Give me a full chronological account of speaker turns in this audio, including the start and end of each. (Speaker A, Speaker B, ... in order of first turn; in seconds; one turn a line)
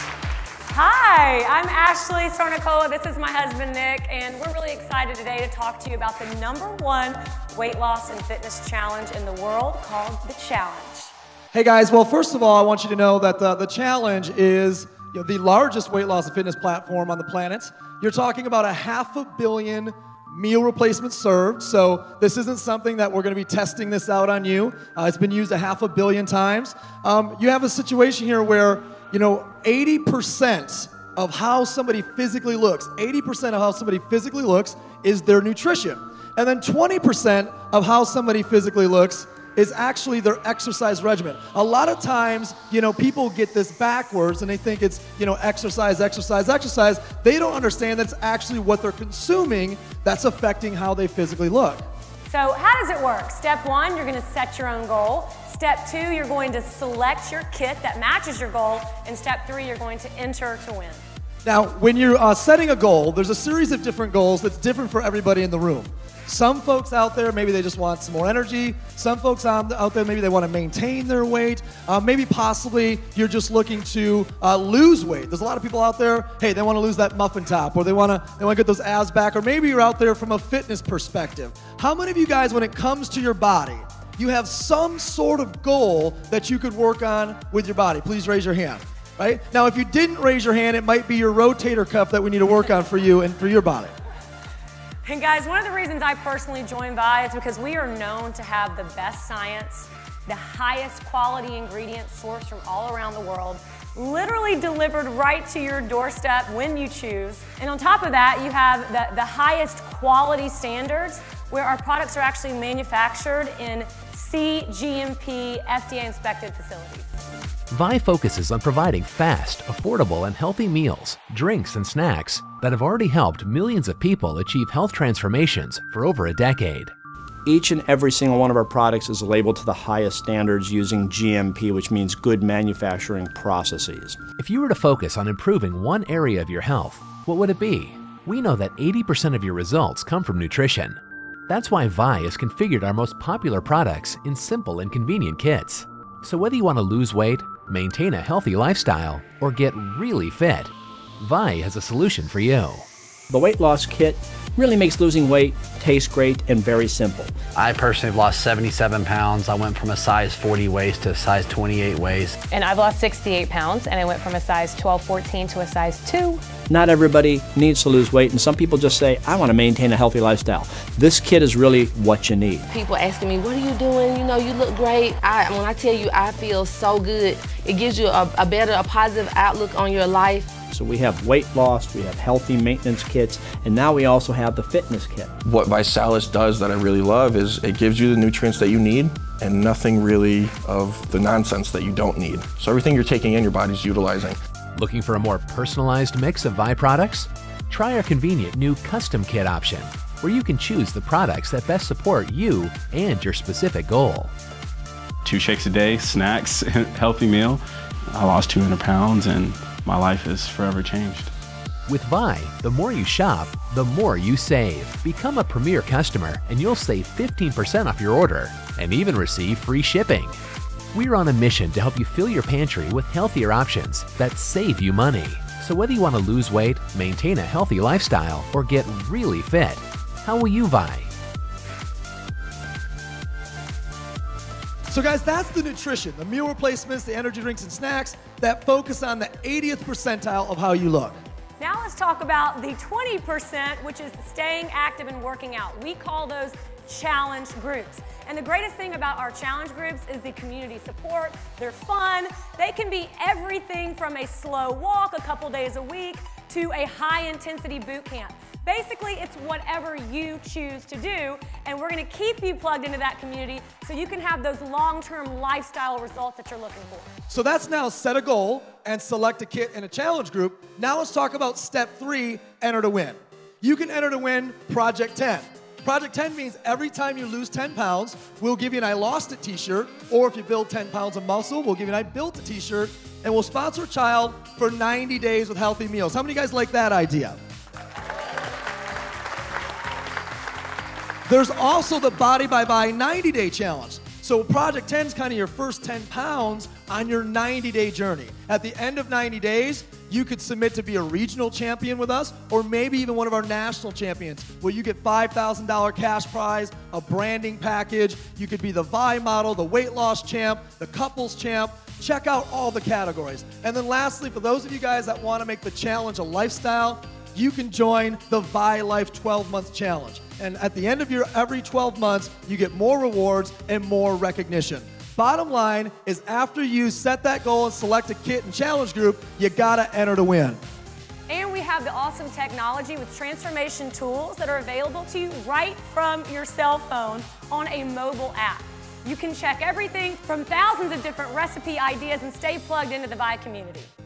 Speaker A: 0.7-11.1
Speaker B: 11.5-51.9
Speaker A: 52.3-61.0
Speaker B: 61.5-93.9
Speaker A: 95.0-117.1
Speaker C: 117.7-126.9
Speaker D: 127.5-134.2
Speaker C: 134.4-152.9
Speaker D: 153.3-157.3
Speaker E: 157.6-162.3
Speaker F: 162.5-166.4
Speaker D: 166.7-172.7
Speaker G: 172.7-180.5
Speaker D: 180.7-185.3
Speaker H: 185.4-194.4
Speaker C: 194.8-204.3
Speaker I: 205.2-207.6
Speaker I: 208.1-211.3
Speaker C: 211.9-220.4
Speaker C: 220.9-231.1
Speaker B: 234.9-241.2
Speaker A: 241.6-267.1
Speaker B: 267.3-287.4
Speaker B: 291.3-330.6
Speaker A: 331.3-343.9